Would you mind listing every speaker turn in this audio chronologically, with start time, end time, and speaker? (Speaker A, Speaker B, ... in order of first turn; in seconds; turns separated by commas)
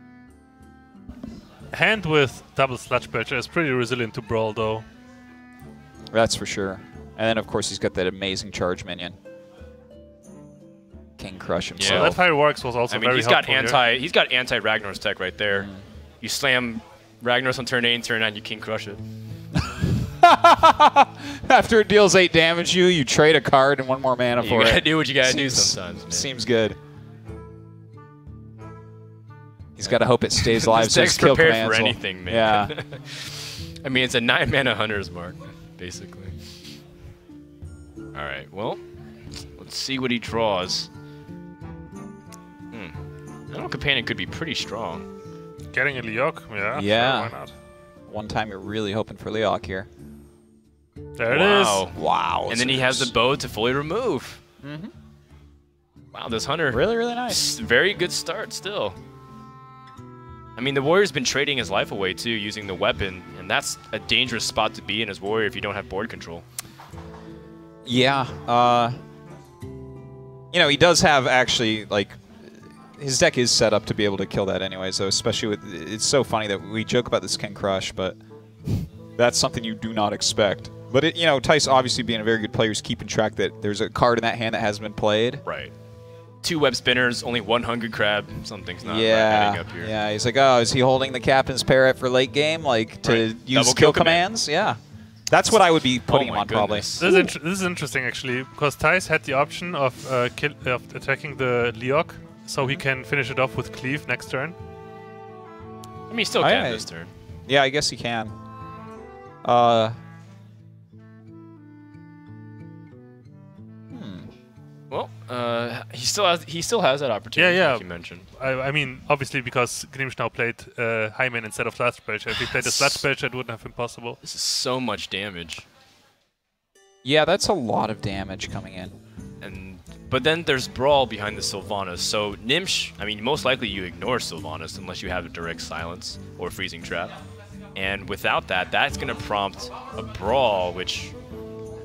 Speaker A: 1.7-4.8, Speaker B: 6.1-9.2, Speaker B: 11.2-12.2, Speaker C: 11.8-12.2, Speaker A: 11.8-13.8, Speaker C: 12.9-15.7, Speaker C: 16.2-19.0, Speaker B: 19.6-26.8, Speaker C: 24.4-26.3, Speaker B: 29.8-32.7, Speaker C: 29.9-36.4, Speaker C: 38.1-38.8, Speaker C: 39.4-40.9, Speaker C: 42.7-43.0, Speaker C: 43.5-45.1, Speaker A: 45.7-47.5, Speaker B: 46.7-47.3, Speaker B: 48.1-49.9, Speaker A: 51.2-51.9, Speaker B: 51.3-53.1, Speaker C: 51.3-52.0, Speaker C: 52.5-54.4, Speaker B: 54.6-54.9, Speaker C: 56.1-59.0, Speaker B: 56.7-57.4, Speaker C: 60.6-66.5, Speaker B: 67.9-69.0, Speaker B: 70.5-72.2, Speaker B: 73.0-78.2, Speaker B: 79.2-85.4, Speaker C: 85.5-85.7, Speaker C: 86.4-89.9, Speaker B: 88.8-94.8, Speaker C: 93.0-94.3, Speaker B: 95.3-97.3, Speaker C: 95.8-97.2, Speaker A: 97.0-104.5, Speaker C: 106.1-107.1, Speaker B: 106.4-106.9, Speaker B: 107.5-108.3, Speaker B: 109.4-110.0, Speaker B: 113.9-114.3, Speaker C: 114.9-118.3, Speaker A: 117.4-124.2, Speaker C: 122.3-123.0, Speaker C: 124.2-125.7, Speaker B: 127.0-129.0, Speaker C: 129.4-137.2, Speaker C: 137.8-141.1